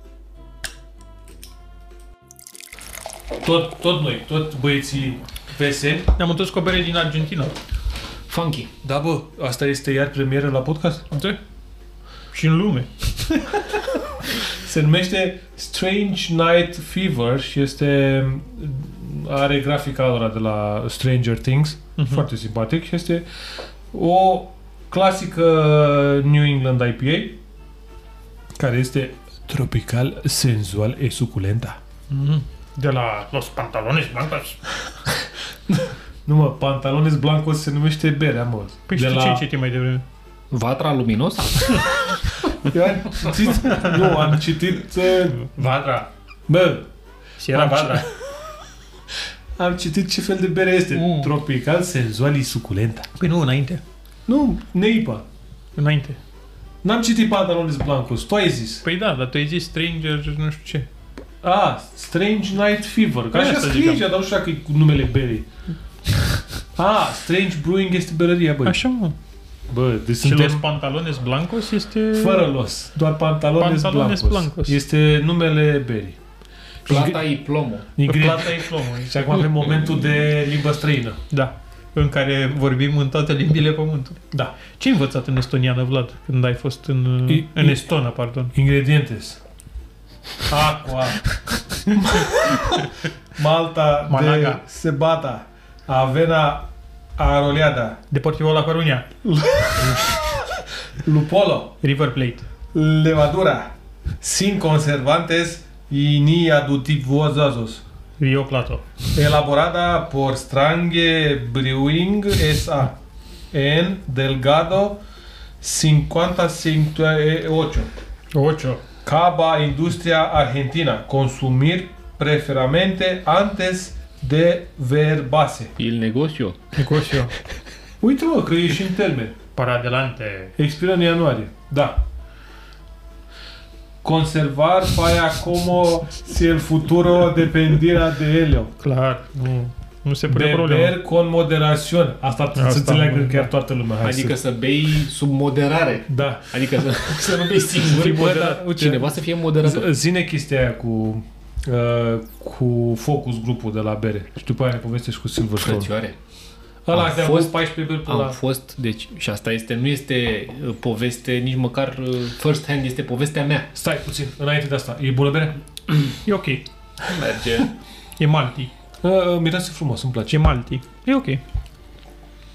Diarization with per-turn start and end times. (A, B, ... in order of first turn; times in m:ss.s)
0:03.4-0:06.1 A
0:06.2-0:07.5 B
0:08.3-0:08.7 C
0:08.8-0:11.1 A
0:11.1-0:11.4 B
0:12.3-0:14.3 B
0:14.5-0:23.2 A
0:22.0-0:22.2 B
0:23.9-0:27.4 A
0:28.5-0:31.8 A
0:32.1-0:34.8 B
0:35.7-0:39.4 A
0:38.9-0:40.0 B
0:40.5-0:42.1 C
0:42.5-0:45.6 A
0:43.6-0:44.4 B
0:45.4-0:46.1 B
0:46.5-0:46.9 A
0:47.4-0:48.1 B
0:47.5-0:48.1 A
0:49.6-0:53.1 A
0:50.9-0:51.3 B
0:53.2-0:53.8 B
0:54.3-0:55.2 A
0:55.8-0:56.2 B
0:56.8-0:58.8 A
0:58.8-1:00.9 B
1:01.4-1:05.5 A
1:03.3-1:04.0 B
1:06.8-1:08.8 A
1:08.6-1:09.1 B
1:09.7-1:10.6 A
1:10.2-1:12.5 B
1:12.1-1:16.2 A
1:13.6-1:14.8 B
1:16.8-1:17.2 A
1:16.8-1:17.9 C
1:18.0-1:21.2 A
1:18.0-1:19.5 B
1:21.3-1:28.5 B
1:24.3-1:24.6 A
1:27.3-1:27.9 A
1:28.5-1:29.4 A
1:30.5-1:31.2 A
1:31.9-1:38.0 A
1:34.1-1:34.6 B
1:38.1-1:39.1 B
1:39.2-1:41.8 A
1:41.8-1:42.4 B
1:42.7-1:47.8 A
1:48.2-1:49.0 B
1:49.1-1:53.0 A
1:53.5-1:55.0 A
1:55.6-1:57.9 A
1:58.3-1:58.8 B
1:59.0-2:05.7 A
2:05.8-2:06.8 C
2:06.8-2:07.3 B
2:08.0-2:09.4 A
2:09.6-2:10.5 B
2:10.6-2:12.0 A
2:14.0-2:18.7 A
2:18.8-2:20.9 B
2:20.3-2:24.4 A
2:22.5-2:23.5 B
2:24.0-2:29.9 C
2:26.1-2:27.0 A
2:27.8-2:35.9 A
2:28.0-2:28.6 B
2:35.6-2:36.2 C
2:36.8-2:38.4 A
2:36.9-2:43.7 C
2:43.7-2:45.6 A
2:46.2-2:46.6 B
2:47.0-2:47.7 C
2:48.2-2:48.7 B
2:49.0-2:50.4 A
2:50.3-2:51.4 B